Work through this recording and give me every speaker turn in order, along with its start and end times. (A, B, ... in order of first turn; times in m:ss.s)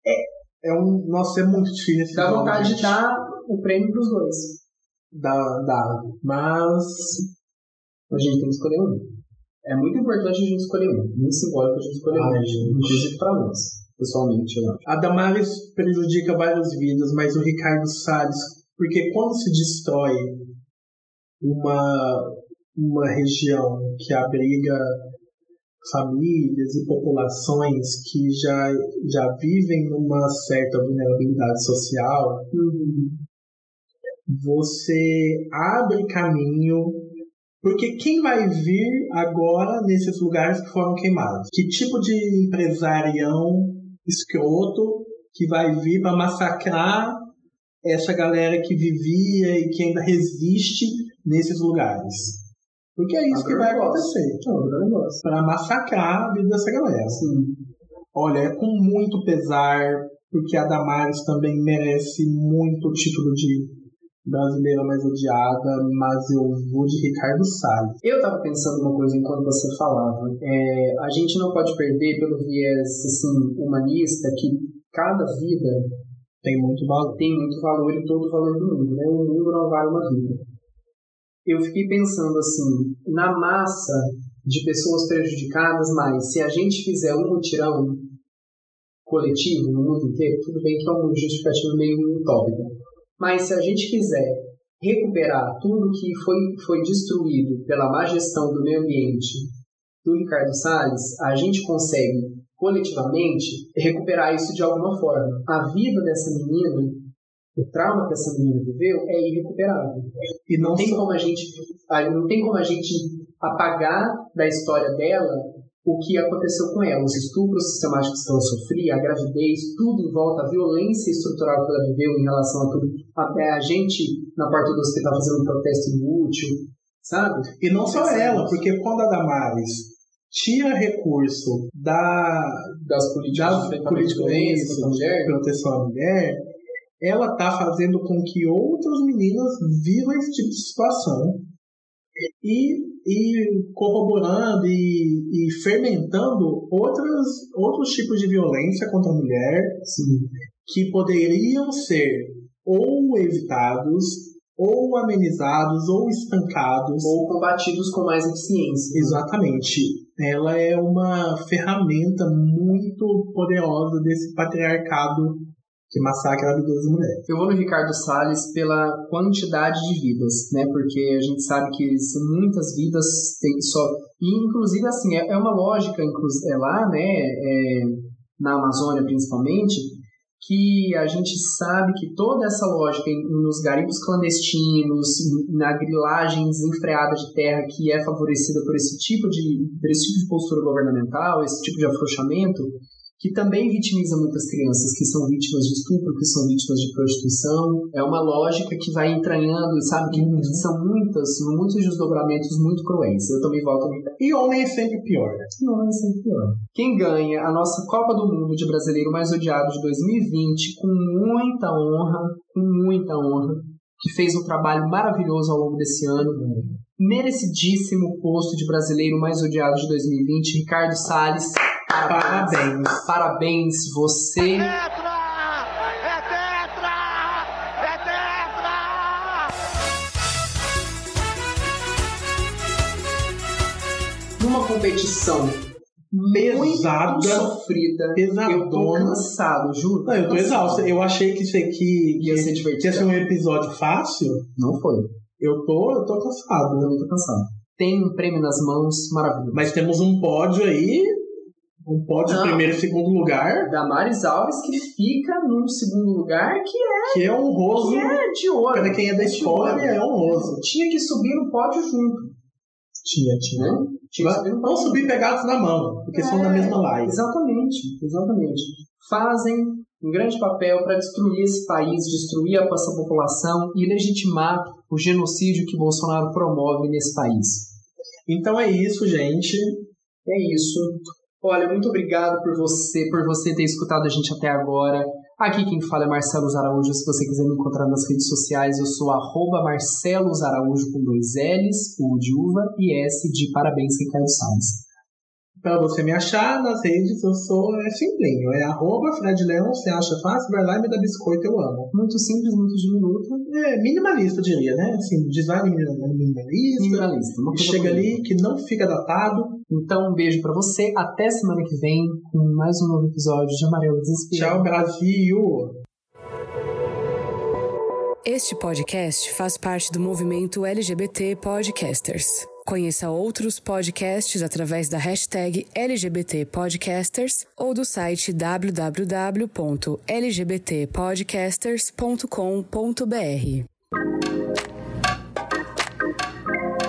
0:00.6-0:03.0 A
0:02.1-0:04.6 B
0:05.1-0:07.3 A
0:08.1-0:09.1 B
0:09.6-0:14.9 B
0:12.1-0:13.1 A
0:14.9-0:20.4 A
0:21.4-0:25.0 A
0:25.8-0:32.5 A
0:32.5-0:33.2 B
0:34.3-0:37.1 A
0:37.6-0:47.3 A
0:47.8-0:52.4 A
0:53.0-0:54.4 A
0:53.3-0:55.2 B
0:55.2-0:57.3 A
0:57.2-0:57.6 B
0:58.1-1:03.7 A
1:04.2-1:08.0 A
1:08.0-1:15.9 B
1:16.4-1:17.2 A
1:17.2-1:20.4 B
1:21.4-1:28.0 B
1:29.0-1:39.5 B
1:40.0-1:47.0 B
1:47.6-1:50.1 B
1:50.5-1:51.0 A
1:50.6-2:08.6 B
2:07.6-2:12.8 A
2:12.8-2:15.4 B
2:13.3-2:16.4 A
2:17.0-2:21.4 A
2:22.4-2:29.8 A
2:29.8-2:30.3 B
2:30.7-2:37.2 A
2:37.0-2:39.2 B
2:38.9-2:47.3 A
2:47.3-3:24.2 B
3:20.1-3:20.7 A
3:24.2-3:25.5 A
3:25.6-3:36.4 B
3:36.3-3:36.7 A
3:37.0-3:44.8 B
3:42.0-3:43.1 A
3:54.4-4:00.9 B
3:56.3-3:59.3 A
4:00.0-4:04.5 A
4:02.2-4:03.1 B
4:04.6-4:05.1 B
4:05.4-4:06.9 A
4:06.8-4:09.7 B
4:09.5-4:11.2 A
4:11.8-4:13.7 A
4:12.3-4:12.7 B
4:13.6-4:22.3 B
4:17.1-4:18.2 A
4:18.7-4:20.6 A
4:23.0-4:27.2 A
4:23.6-4:25.2 B
4:26.1-4:37.7 B
4:38.3-4:39.8 A
4:40.2-4:54.8 B
4:55.6-5:01.9 A
5:01.9-5:03.5 B
5:03.5-5:09.6 A
5:06.8-5:08.2 B
5:09.7-5:14.7 B
5:14.3-5:15.7 A
5:18.2-5:33.7 C